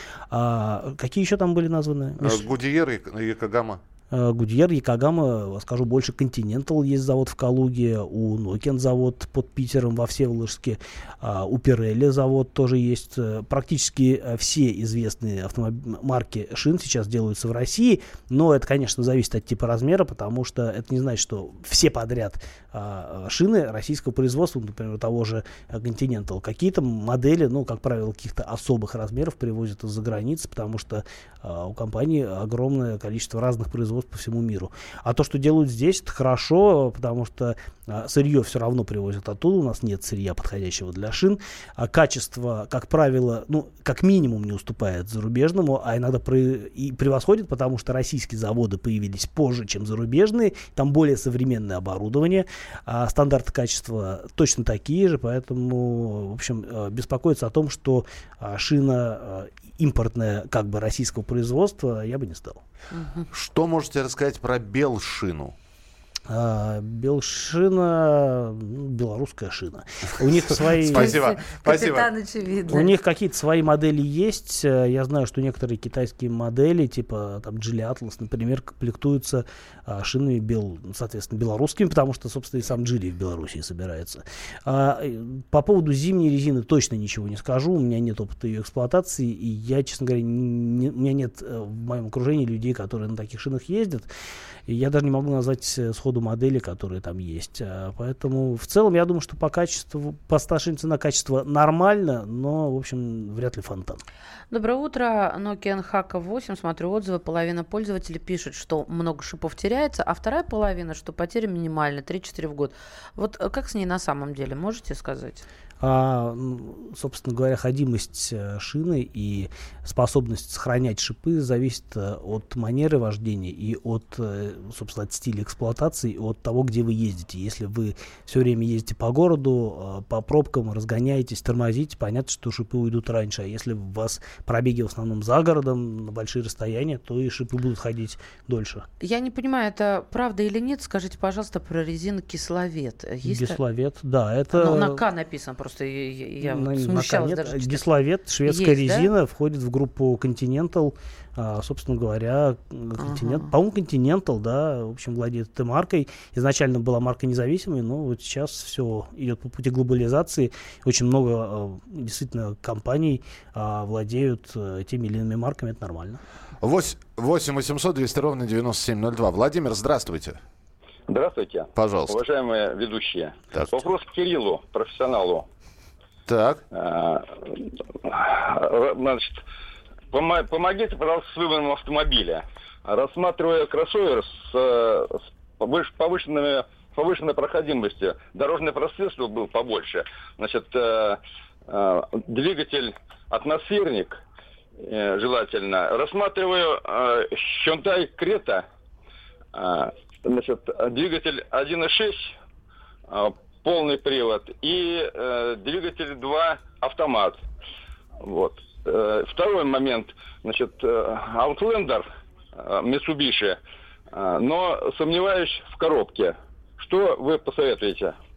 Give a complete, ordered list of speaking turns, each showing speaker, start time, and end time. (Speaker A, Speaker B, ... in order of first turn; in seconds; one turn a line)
Speaker A: 0.3-2.4
Speaker B: 2.2-3.8
Speaker A: 4.1-62.6
Speaker C: 62.9-63.3
Speaker B: 63.3-65.5
Speaker A: 66.3-71.2
Speaker B: 70.2-72.1
Speaker C: 70.9-73.0
Speaker A: 72.7-94.1
Speaker A: 94.7-104.0
Speaker C: 104.5-115.5
Speaker A: 115.8-138.9
Speaker C: 139.0-143.6
Speaker A: 143.2-145.0
Speaker C: 144.5-147.8
Speaker A: 146.4-166.2
Speaker C: 148.5-149.1
Speaker C: 153.0-153.5
Speaker B: 166.6-170.4
Speaker D: 171.1-175.5
Speaker B: 171.8-172.2
Speaker B: 173.5-173.8
Speaker B: 176.3-176.6
Speaker D: 176.7-179.4
Speaker D: 180.1-194.2
Speaker D: 194.8-198.7
Speaker D: 199.5-202.3
Speaker D: 203.1-207.4
Speaker D: 208.2-213.6
Speaker D: 214.1-218.2